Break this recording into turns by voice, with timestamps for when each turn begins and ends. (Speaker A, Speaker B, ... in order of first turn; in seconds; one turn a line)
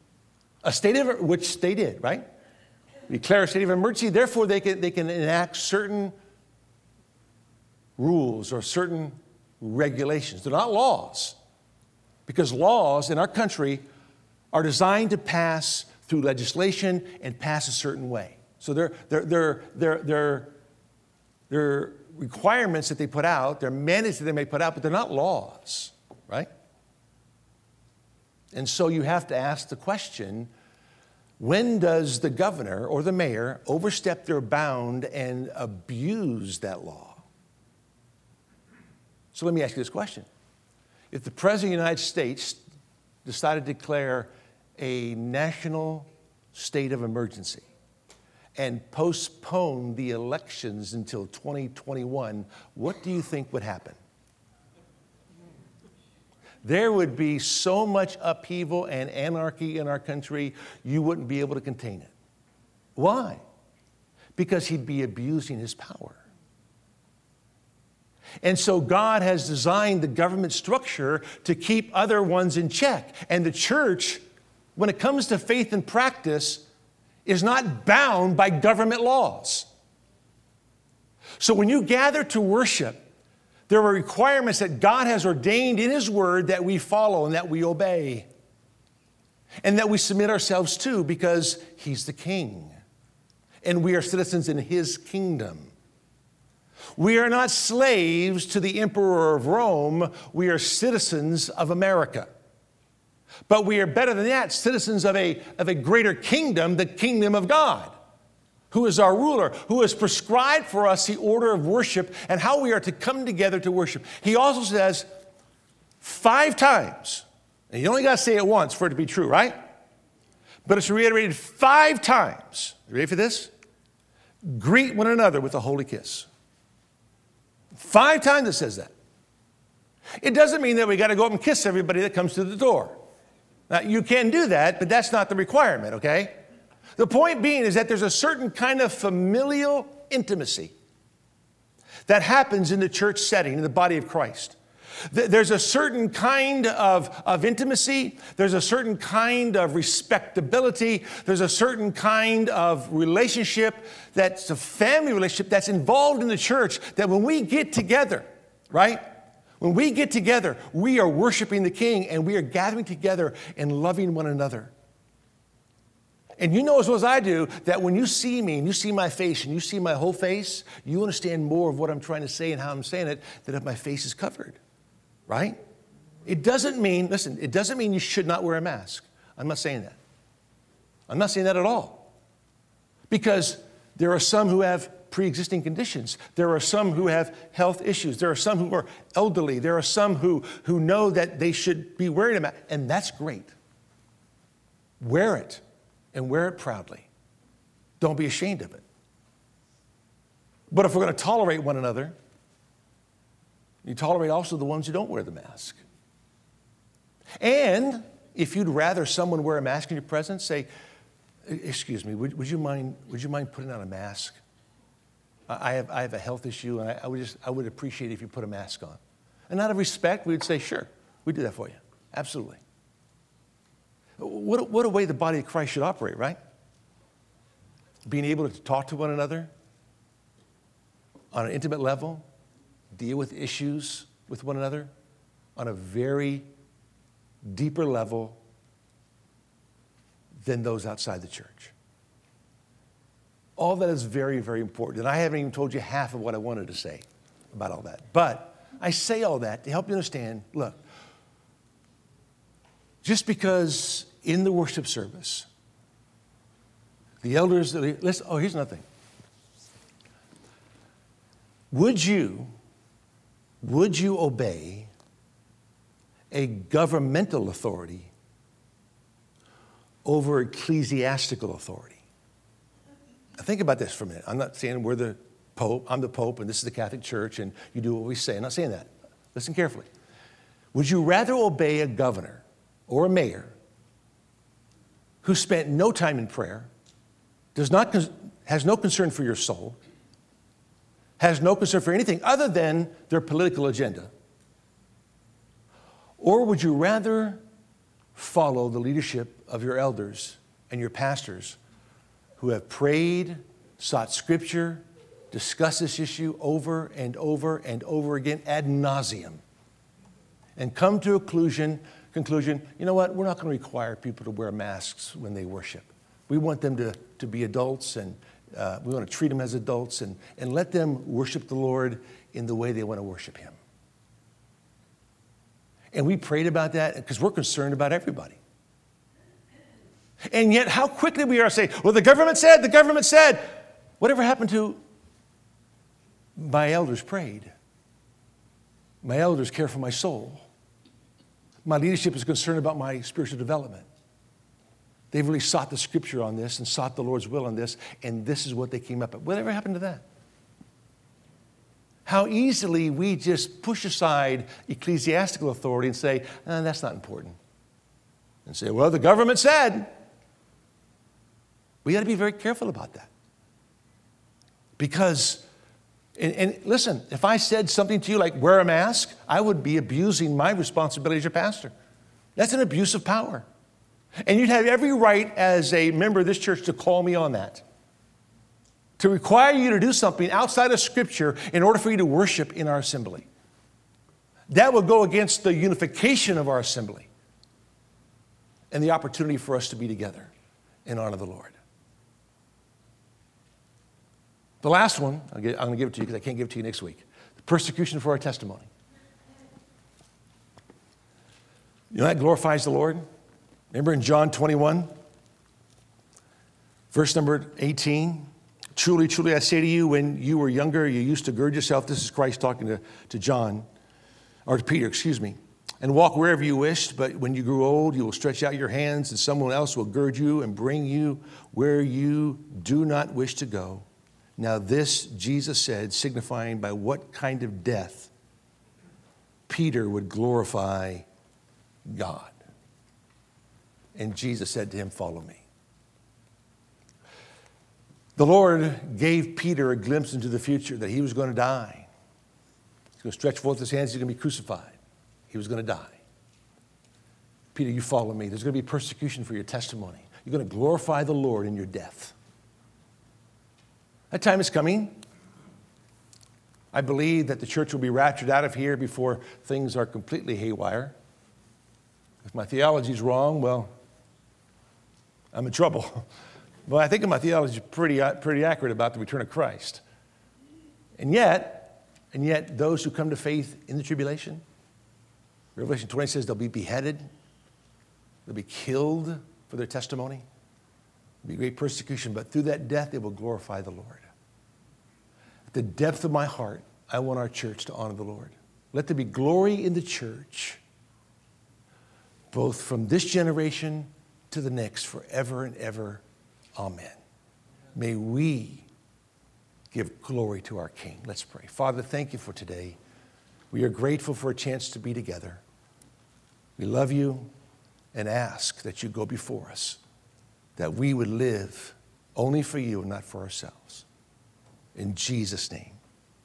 Speaker A: 0.6-2.2
Speaker A: 3.1-6.1
Speaker A: 8.0-11.3
Speaker A: 12.2-13.8
Speaker A: 14.5-20.5
Speaker A: 21.5-26.5
Speaker A: 28.5-30.5
Speaker A: 31.4-37.2
Speaker A: 39.3-40.3
Speaker A: 41.1-42.6
Speaker A: 43.2-47.6
Speaker A: 48.5-54.0
Speaker A: 56.6-62.1
Speaker A: 63.0-63.4
Speaker A: 64.3-66.2
Speaker A: 68.4-74.2
Speaker A: 74.8-76.6
Speaker A: 77.2-79.7
Speaker A: 81.4-83.0
Speaker A: 83.7-88.3
Speaker A: 89.6-92.7
Speaker A: 93.6-95.7
Speaker A: 97.0-102.3
Speaker A: 103.5-107.9
Speaker A: 108.7-115.1
Speaker A: 116.0-119.5
Speaker A: 120.7-123.5
Speaker A: 124.4-126.3
Speaker A: 127.7-128.9
Speaker A: 130.2-133.0
Speaker A: 133.7-136.3
Speaker A: 136.9-140.7
Speaker A: 142.1-144.6
Speaker A: 145.1-159.0
Speaker A: 159.6-164.7
Speaker A: 166.4-174.6
Speaker A: 175.3-175.6
Speaker A: 176.2-180.0
Speaker A: 181.1-182.1
Speaker A: 183.1-193.5
Speaker A: 195.0-195.6
Speaker A: 196.1-197.1
Speaker A: 198.0-198.8
Speaker A: 200.7-202.1
Speaker A: 203.8-205.8
Speaker A: 207.4-210.7
Speaker A: 211.4-214.3
Speaker A: 215.5-222.6
Speaker A: 224.2-226.4
Speaker A: 228.1-229.5
Speaker A: 231.3-232.2
Speaker A: 232.9-234.9
Speaker A: 235.6-236.4
Speaker A: 237.4-238.4
Speaker A: 240.4-241.7
Speaker A: 243.6-250.8
Speaker A: 253.0-255.5
Speaker A: 257.2-258.8
Speaker A: 261.7-262.5
Speaker A: 263.6-264.9
Speaker A: 266.3-268.1
Speaker A: 270.1-272.0
Speaker A: 273.4-279.9
Speaker A: 280.7-283.5
Speaker A: 285.2-286.7
Speaker A: 287.5-289.8
Speaker A: 291.2-294.1
Speaker A: 296.2-297.4
Speaker A: 298.1-301.6
Speaker A: 302.4-309.4
Speaker A: 310.6-323.6
Speaker A: 325.9-328.4
Speaker A: 330.3-334.8
Speaker A: 336.4-337.5
Speaker A: 339.0-340.4
Speaker A: 341.6-343.9
Speaker A: 345.1-350.0
Speaker A: 352.1-357.4
Speaker A: 358.4-359.9
Speaker A: 361.8-363.1
Speaker A: 364.8-365.4
Speaker A: 366.1-371.7
Speaker A: 372.4-373.4
Speaker A: 374.2-377.6
Speaker A: 379.0-383.3
Speaker A: 384.5-387.1
Speaker A: 388.7-390.3
Speaker A: 390.8-391.6
Speaker A: 394.6-398.7
Speaker A: 401.9-403.0
Speaker A: 403.7-404.9
Speaker A: 406.9-413.6
Speaker A: 414.4-423.9
Speaker A: 424.4-428.1
Speaker A: 429.5-431.1
Speaker A: 431.9-432.4
Speaker A: 433.9-435.4
Speaker A: 438.1-441.9
Speaker A: 443.0-444.8
Speaker A: 445.3-446.0
Speaker A: 447.5-452.1
Speaker A: 454.1-454.9
Speaker A: 456.7-460.9
Speaker A: 462.2-463.7
Speaker A: 465.3-466.1
Speaker A: 466.7-469.8
Speaker A: 471.0-474.4
Speaker A: 475.6-477.1
Speaker A: 478.2-480.2
Speaker A: 481.2-484.1
Speaker A: 485.5-490.6
Speaker A: 492.3-496.0
Speaker A: 496.6-497.0
Speaker A: 497.7-498.7
Speaker A: 499.7-502.8
Speaker A: 503.5-505.4
Speaker A: 506.6-507.3
Speaker A: 507.9-509.8
Speaker A: 510.6-513.9
Speaker A: 514.7-515.8